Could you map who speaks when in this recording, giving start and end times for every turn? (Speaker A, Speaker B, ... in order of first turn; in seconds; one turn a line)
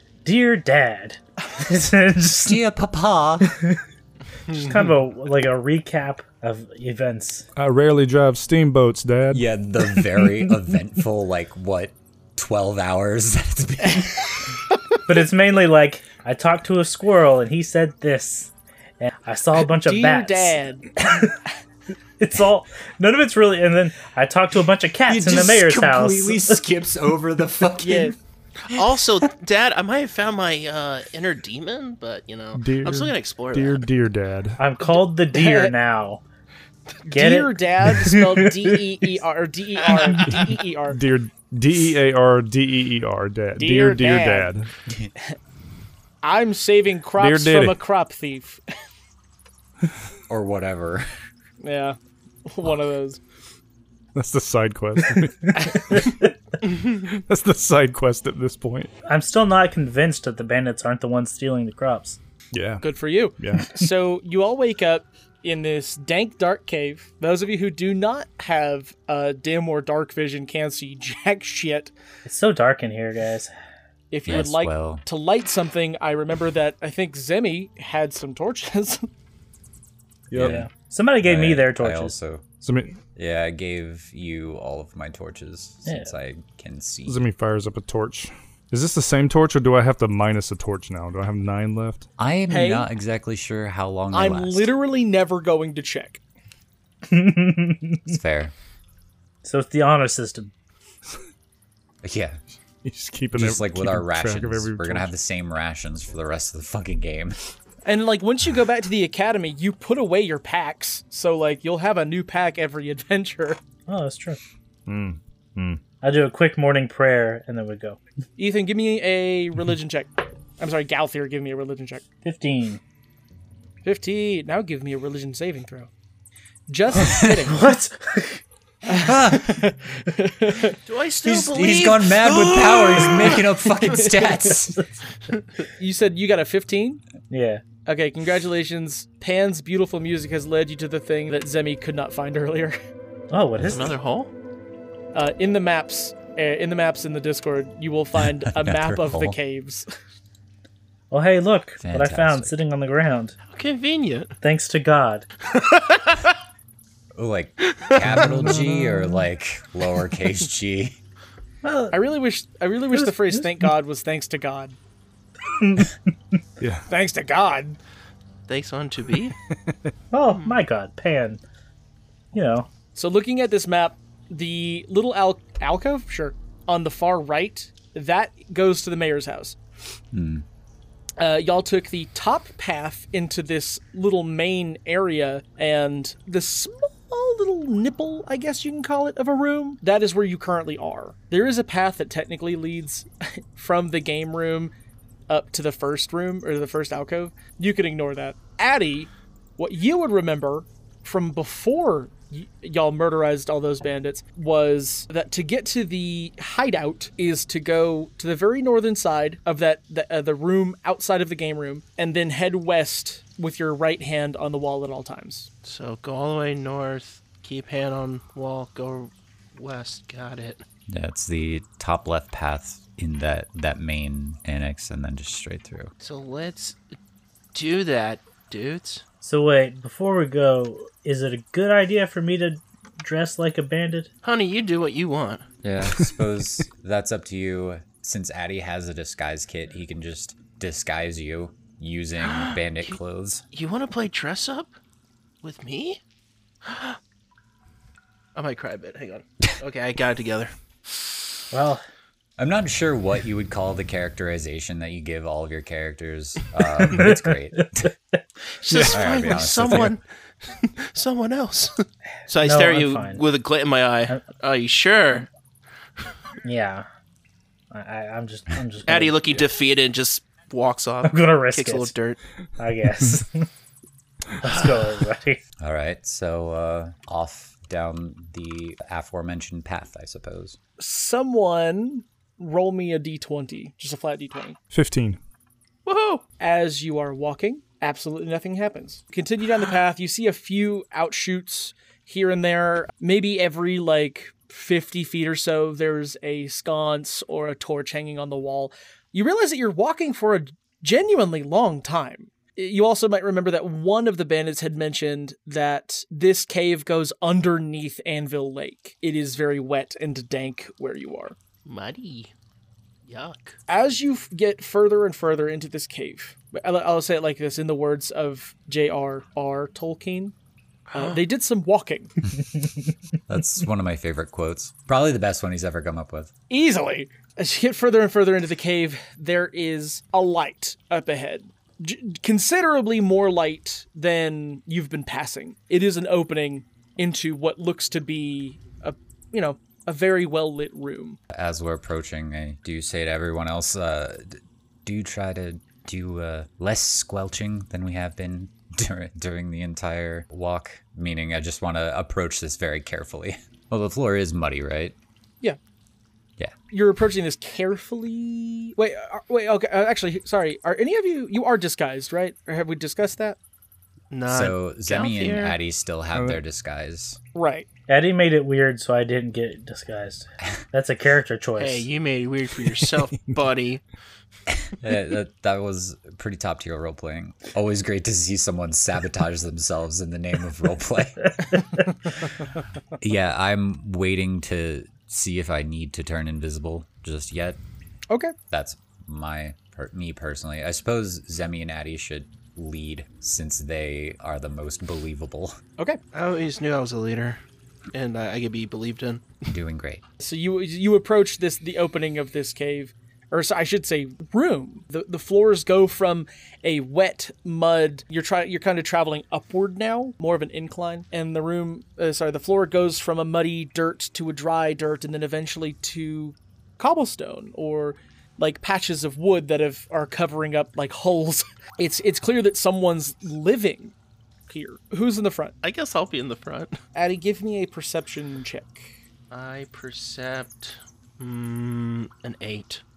Speaker A: 0.2-2.6
Speaker B: 2.3-3.6
Speaker A: 3.4-3.8
Speaker A: 4.5-7.5
Speaker C: 7.5-9.4
Speaker B: 9.3-14.5
Speaker A: 15.1-21.4
Speaker D: 19.6-20.9
Speaker A: 22.2-26.6
Speaker B: 25.1-28.1
Speaker D: 27.8-28.1
Speaker E: 28.7-33.8
Speaker C: 32.5-34.6
Speaker A: 34.6-36.2
Speaker D: 35.3-35.7
Speaker D: 37.0-41.0
Speaker A: 37.1-38.8
Speaker E: 39.9-40.2
Speaker C: 40.3-44.7
Speaker D: 43.5-44.5
Speaker D: 46.2-48.6
Speaker C: 47.2-47.8
Speaker B: 50.3-51.1
Speaker D: 51.6-53.2
Speaker C: 54.1-58.9
Speaker A: 59.1-62.2
Speaker C: 62.5-62.8
Speaker D: 62.8-71.9
Speaker C: 63.4-63.7
Speaker A: 72.2-73.5
Speaker D: 74.1-79.1
Speaker B: 74.2-75.0
Speaker C: 80.3-80.6
Speaker B: 80.3-80.7
Speaker A: 80.3-82.2
Speaker B: 81.2-82.4
Speaker C: 82.6-83.0
Speaker B: 83.1-87.2
Speaker A: 85.8-86.1
Speaker C: 87.0-92.1
Speaker B: 92.2-94.7
Speaker D: 92.5-92.9
Speaker D: 94.1-96.2
Speaker A: 97.0-98.2
Speaker B: 98.1-98.5
Speaker A: 99.4-100.5
Speaker B: 102.0-102.4
Speaker C: 102.8-105.1
Speaker B: 103.3-107.4
Speaker D: 107.8-113.6
Speaker A: 113.9-114.4
Speaker C: 114.8-115.8
Speaker A: 116.0-118.0
Speaker D: 118.4-122.0
Speaker A: 122.2-122.8
Speaker D: 123.8-125.9
Speaker D: 126.7-127.6
Speaker B: 127.0-127.5
Speaker A: 127.5-128.4
Speaker B: 128.9-129.6
Speaker D: 128.9-130.8
Speaker E: 130.8-133.5
Speaker B: 131.2-134.9
Speaker D: 134.0-134.5
Speaker D: 135.8-137.0
Speaker A: 137.3-137.6
Speaker D: 137.8-142.8
Speaker A: 143.3-144.0
Speaker E: 143.6-144.3
Speaker D: 145.1-149.9
Speaker B: 148.3-149.4
Speaker A: 151.1-153.3
Speaker B: 151.8-152.6
Speaker E: 153.5-154.4
Speaker A: 154.4-155.2
Speaker E: 155.5-156.3
Speaker B: 157.1-161.0
Speaker E: 157.7-158.0
Speaker C: 158.2-159.0
Speaker A: 161.6-162.0
Speaker D: 161.9-164.8
Speaker A: 162.9-163.7
Speaker A: 165.5-166.0
Speaker C: 166.6-166.8
Speaker D: 166.9-167.8
Speaker E: 168.5-169.3
Speaker C: 169.5-169.9
Speaker A: 170.1-171.4
Speaker E: 170.3-170.6
Speaker A: 172.3-172.7
Speaker D: 172.9-179.6
Speaker B: 180.1-180.4
Speaker D: 181.2-194.7
Speaker D: 195.3-215.5
Speaker E: 215.6-220.6
Speaker B: 220.9-225.9
Speaker E: 226.0-226.8
Speaker E: 227.5-229.0
Speaker A: 229.2-234.1
Speaker E: 234.2-235.4
Speaker B: 235.6-243.4
Speaker E: 242.2-243.0
Speaker E: 243.5-244.7
Speaker E: 245.4-246.0
Speaker E: 246.6-247.0
Speaker E: 248.3-250.5
Speaker A: 251.5-251.8
Speaker B: 252.4-257.9
Speaker A: 256.8-257.9
Speaker E: 258.6-265.3
Speaker B: 258.8-260.0
Speaker A: 262.4-263.2
Speaker A: 266.4-266.9
Speaker A: 267.7-269.4
Speaker E: 268.9-272.2
Speaker A: 271.0-271.9
Speaker A: 272.6-273.5
Speaker A: 274.4-275.4
Speaker B: 275.6-280.6
Speaker D: 280.8-284.6
Speaker C: 284.7-285.2
Speaker E: 285.9-286.2
Speaker D: 286.4-311.4
Speaker E: 311.6-312.3
Speaker E: 313.1-313.6
Speaker D: 313.7-320.3
Speaker E: 320.9-321.2
Speaker D: 320.9-322.1
Speaker B: 323.3-326.3
Speaker D: 326.5-341.2
Speaker B: 341.3-354.9
Speaker D: 356.7-363.4
Speaker E: 364.1-365.6
Speaker B: 364.3-367.2
Speaker C: 366.1-366.4
Speaker D: 367.3-367.7
Speaker A: 367.9-371.9
Speaker E: 371.6-373.8
Speaker B: 374.8-381.8
Speaker B: 383.0-387.6
Speaker B: 388.5-395.6
Speaker E: 396.1-397.4
Speaker E: 397.9-399.2
Speaker B: 399.5-400.0
Speaker D: 400.2-423.9
Speaker D: 424.5-425.5
Speaker E: 425.6-426.8
Speaker D: 426.9-428.9
Speaker E: 429.3-432.8